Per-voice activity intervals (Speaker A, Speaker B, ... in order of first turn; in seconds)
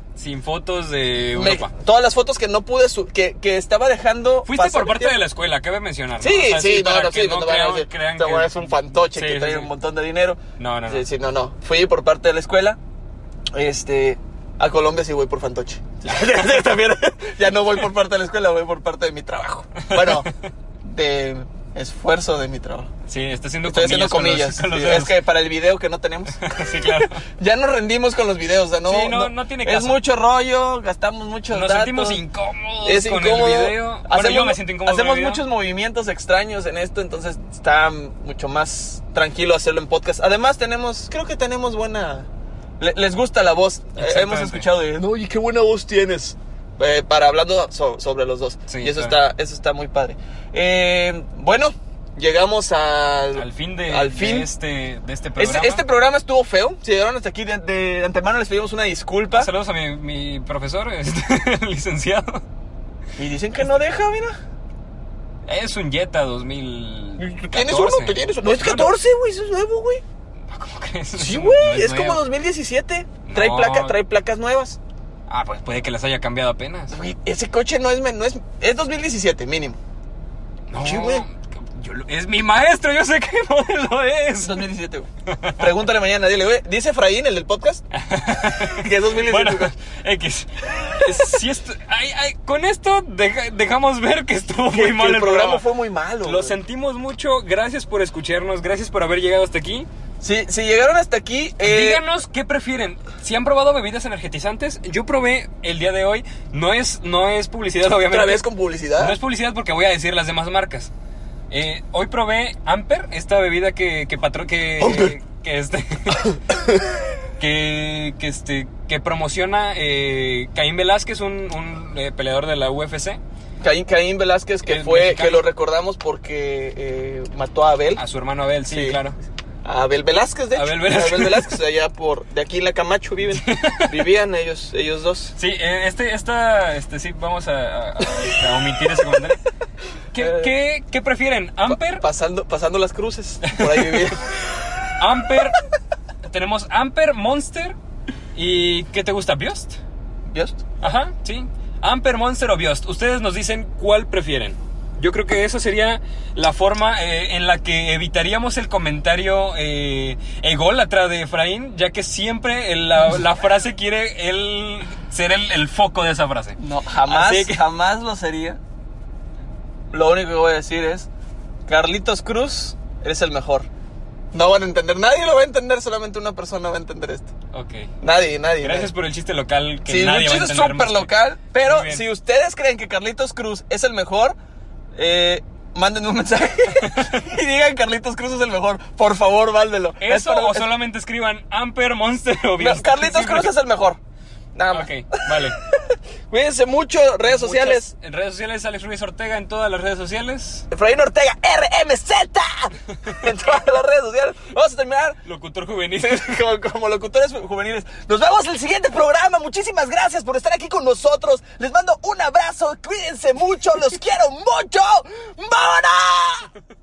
Speaker A: 0.2-1.7, 4.5-9.7, 10.6-11.1, 19.9-20.3, 23.1-25.2, 26.4-27.2, 28.9-30.0, 31.5-35.4, 44.0-44.7, 48.7-49.2, 53.4-55.9, 59.3-62.4, 65.5-69.0, 70.5-72.2, 73.3-74.0, 75.3-77.0, 80.7-84.7, 85.3-85.7, 87.9-95.7, 96.2-99.9, 101.6-110.9, 111.5-116.4, 117.4-123.2, 124.6-125.5, 128.0-129.2, 130.5-131.6, 133.3-134.1, 135.4-139.4, 140.1-142.1, 143.4-144.2, 145.0-145.6, 146.2-147.8, 148.3-149.8, 150.8-167.6, 177.5-177.9, 178.6-182.1, 186.8-187.1, 190.0-193.5, 194.7-195.6, 197.2-200.7, 205.2-206.4
Speaker B: 1.4-5.2, 6.2-12.8, 13.5-20.3, 20.8-22.9, 23.6-32.2, 32.9-42.3, 42.8-54.5, 55.4-59.5, 63.2-64.4, 67.2-70.0, 71.2-74.8, 76.9-79.8, 80.8-81.2, 84.4-87.8, 88.7-89.7, 94.7-96.6, 100.2-102.0, 108.1-109.2, 114.8-115.1, 116.3-116.8, 123.6-128.0, 128.7-129.0, 129.7-135.3, 140.2-140.5, 141.7-144.3, 150.3-150.6, 166.6-168.6, 169.9-171.1, 171.7-173.7, 174.3-177.3, 178.0-178.9, 179.9-184.3, 185.0-190.7, 192.6-194.0, 194.6-197.9, 200.7-205.2, 206.0-216.5